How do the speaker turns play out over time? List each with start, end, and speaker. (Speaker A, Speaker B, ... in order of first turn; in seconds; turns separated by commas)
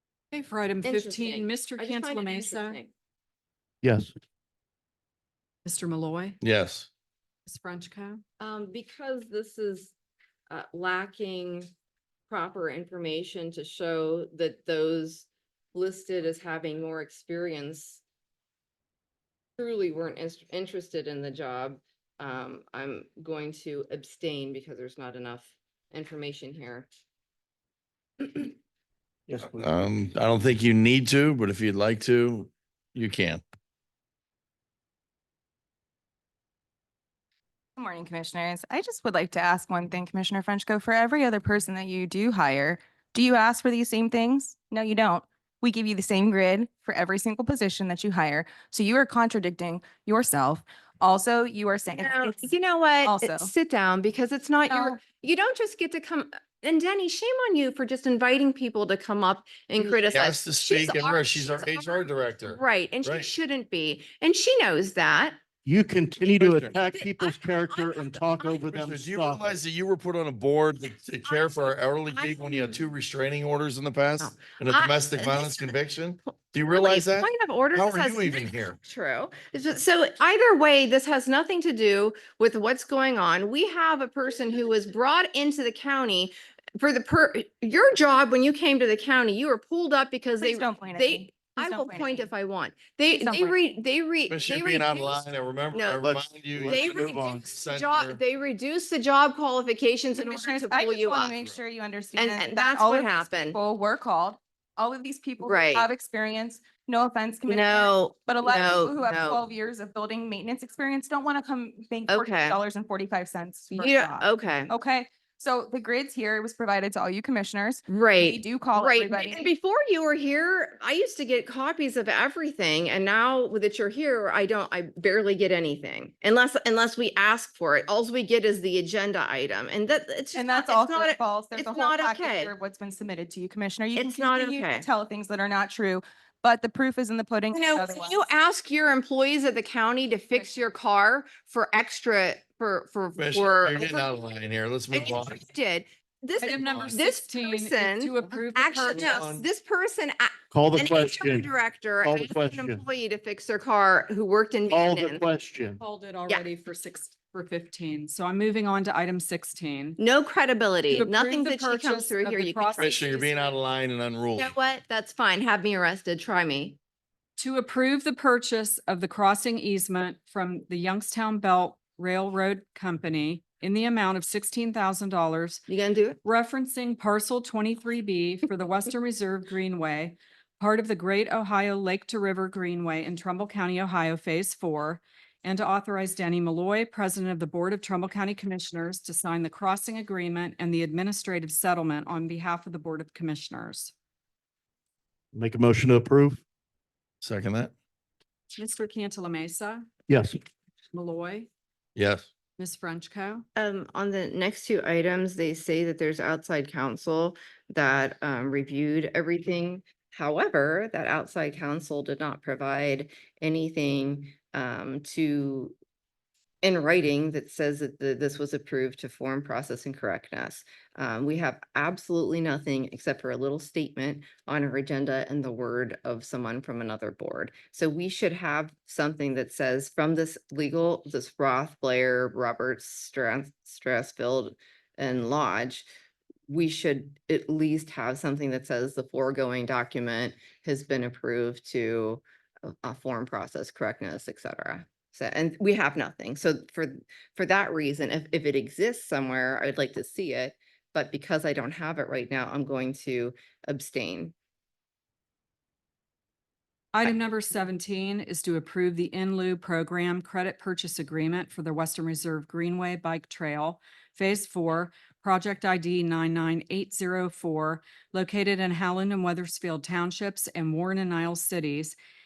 Speaker A: 0.3-2.8, Speaker B: 0.8-2.9, Speaker C: 3.8-4.1, Speaker A: 5.6-6.4, Speaker D: 6.4-6.9, Speaker A: 7.5-8.2, Speaker B: 8.4-9.9, Speaker B: 10.5-11.7, Speaker B: 12.3-18.0, Speaker B: 19.6-26.9, Speaker B: 28.2-28.5, Speaker C: 29.3-29.7, Speaker D: 29.5-33.4, Speaker E: 37.8-52.5, Speaker B: 52.0-65.4, Speaker E: 53.0-53.5, Speaker E: 54.7-55.0, Speaker D: 60.1-63.3, Speaker C: 65.6-69.5, Speaker D: 66.3-66.7, Speaker B: 66.9-68.6, Speaker D: 68.7-78.8, Speaker B: 71.2-72.9, Speaker B: 74.2-75.7, Speaker B: 76.2-96.1, Speaker E: 90.4-92.3, Speaker E: 93.1-93.5, Speaker D: 94.3-98.2, Speaker C: 96.0-97.5, Speaker B: 96.7-101.3, Speaker E: 100.1-119.5, Speaker B: 102.2-103.6, Speaker B: 105.4-105.8, Speaker B: 107.5-109.4, Speaker B: 112.1-112.6, Speaker B: 113.8-114.7, Speaker B: 117.9-132.5, Speaker E: 130.3-138.2, Speaker B: 133.9-134.9, Speaker B: 137.5-144.1, Speaker D: 143.2-145.4, Speaker B: 144.9-155.2, Speaker A: 146.4-149.3, Speaker D: 146.6-146.9, Speaker D: 148.9-149.4, Speaker C: 150.5-151.5, Speaker C: 152.0-152.8, Speaker C: 154.7-155.8, Speaker A: 155.8-160.0, Speaker B: 160.0-163.0, Speaker A: 160.9-163.5, Speaker D: 162.8-164.5, Speaker B: 164.3-166.8, Speaker A: 167.4-175.6, Speaker B: 175.7-176.2, Speaker A: 176.2-193.9, Speaker C: 195.3-196.4, Speaker D: 197.2-197.7, Speaker A: 198.6-199.9, Speaker C: 200.1-200.4, Speaker A: 200.9-201.5, Speaker D: 201.9-202.3, Speaker A: 202.6-203.4, Speaker B: 203.6-215.7, Speaker B: 216.6-235.9, Speaker B: 236.5-254.3, Speaker A: 256.9-271.9